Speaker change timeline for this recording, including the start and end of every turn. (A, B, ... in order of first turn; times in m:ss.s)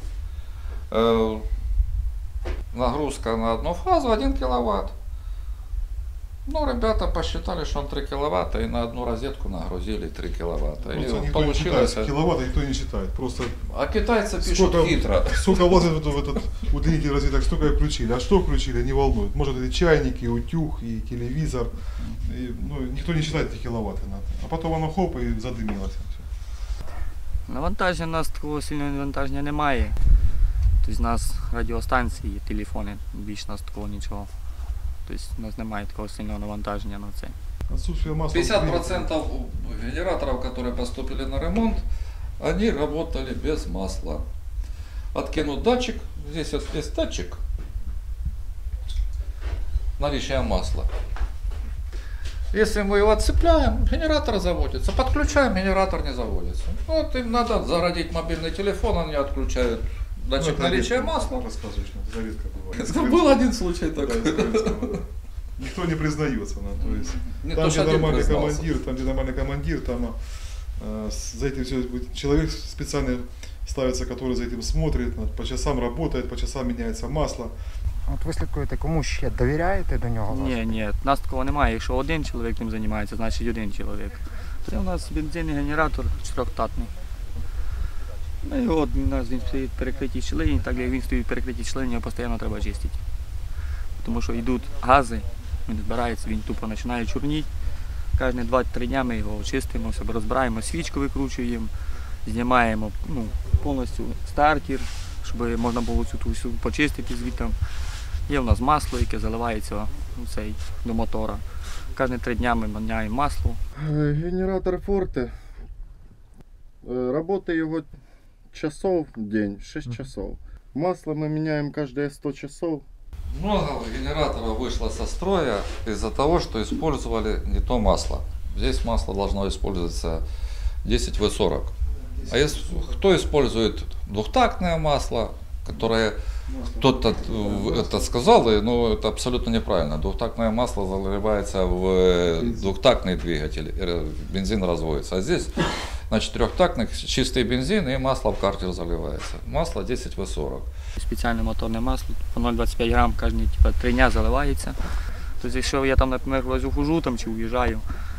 0:00.9-0:01.4 A
0:02.7-0:04.9 A
0:06.4-0:12.1 A
0:10.9-0:13.6 B
0:13.7-0:15.8 A
0:14.4-0:26.2 B
0:27.5-0:30.0 C
0:30.8-0:34.3 C
0:35.0-0:37.3 C
0:37.7-0:39.1 B
0:38.3-0:41.8 A
0:42.4-0:44.2 A
0:45.1-0:47.4 A
0:50.0-0:50.9 A
0:52.5-1:01.4 A
1:00.4-1:05.0 B
1:02.7-1:05.0 A
1:05.6-1:10.2 B
1:06.8-1:08.7 A
1:10.8-1:17.5 B
1:18.1-1:20.7 D
1:20.3-1:26.9 C
1:28.4-1:33.0 C
1:34.0-1:37.5 C
1:38.2-1:41.7 C
1:42.2-1:47.6 C
1:48.3-1:53.6 C
1:53.7-1:55.4 E
1:56.8-1:57.9 E
1:58.5-2:02.8 E
2:03.3-2:10.2 A
2:10.8-2:11.7 A
2:12.2-2:16.2 A
2:16.8-2:30.7 A
2:31.0-2:34.8 C
2:35.4-2:37.8 C